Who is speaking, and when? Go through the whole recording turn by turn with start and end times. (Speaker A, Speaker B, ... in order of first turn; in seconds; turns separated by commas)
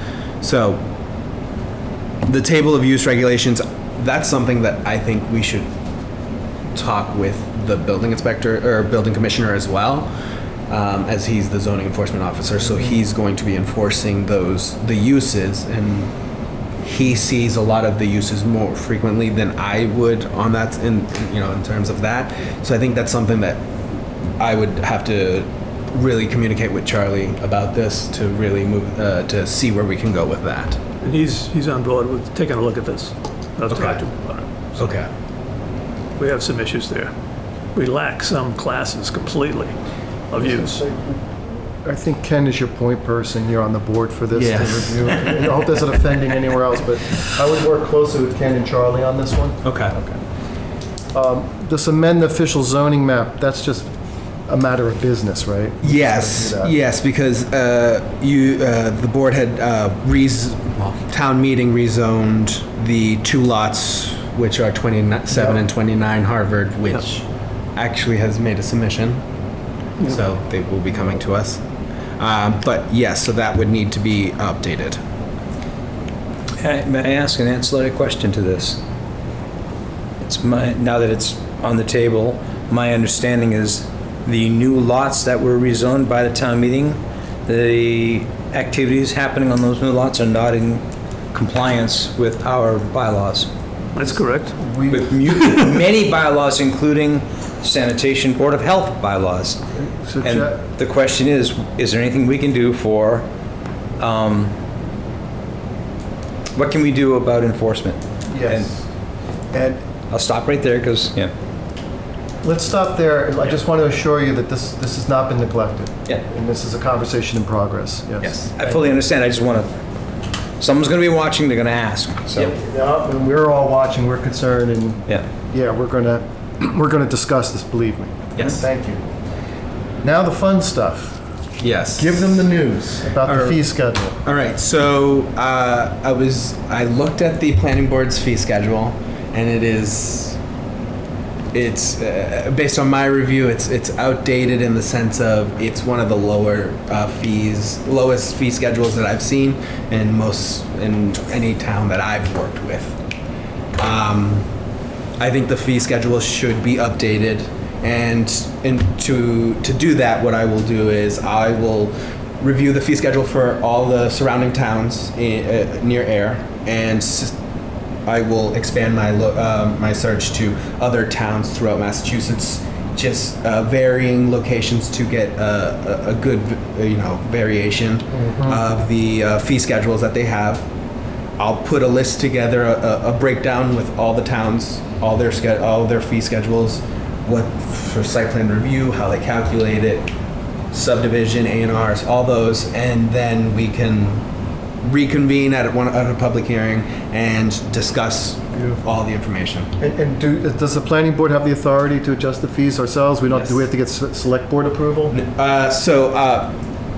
Speaker A: 0.4-0.8, Speaker A: 2.2-5.7, Speaker A: 6.7-10.1, Speaker A: 10.7-16.1, Speaker A: 16.8-23.6, Speaker A: 24.4-30.8, Speaker B: 31.0-34.9, Speaker A: 33.7-34.0, Speaker A: 34.8-35.1, Speaker B: 36.2-37.1, Speaker B: 37.8-39.8, Speaker B: 40.3-40.7, Speaker C: 40.4-41.3, Speaker C: 41.8-50.2, Speaker A: 44.3-45.4, Speaker A: 49.6-49.9, Speaker C: 51.1-53.9, Speaker C: 54.5-56.7, Speaker A: 55.8-69.2, Speaker C: 65.3-65.6, Speaker A: 70.0-71.6, Speaker A: 72.2-75.0, Speaker D: 76.6-78.8, Speaker D: 80.2-93.5, Speaker B: 93.9-94.6, Speaker C: 94.0-95.2, Speaker D: 94.9-99.6, Speaker B: 95.3-95.7, Speaker C: 99.8-100.7, Speaker D: 100.2-103.3, Speaker D: 104.0-104.5, Speaker D: 106.5-108.7, Speaker C: 108.3-108.8, Speaker C: 109.5-109.8, Speaker D: 110.1-111.3, Speaker C: 112.4-118.3, Speaker D: 118.2-119.7, Speaker D: 120.6-122.6, Speaker C: 122.4-129.0, Speaker A: 128.3-128.7, Speaker C: 130.0-131.2, Speaker A: 131.6-132.5, Speaker C: 132.0-134.2, Speaker A: 133.2-133.6, Speaker A: 134.2-140.4, Speaker A: 141.5-153.0, Speaker A: 153.8-154.5, Speaker A: 155.2-167.3, Speaker A: 168.1-180.7, Speaker C: 178.1-178.6, Speaker A: 181.4-190.1, Speaker A: 190.7-194.2, Speaker A: 194.8-199.7, Speaker C: 199.8-205.2, Speaker A: 203.3-203.6, Speaker A: 205.1-206.6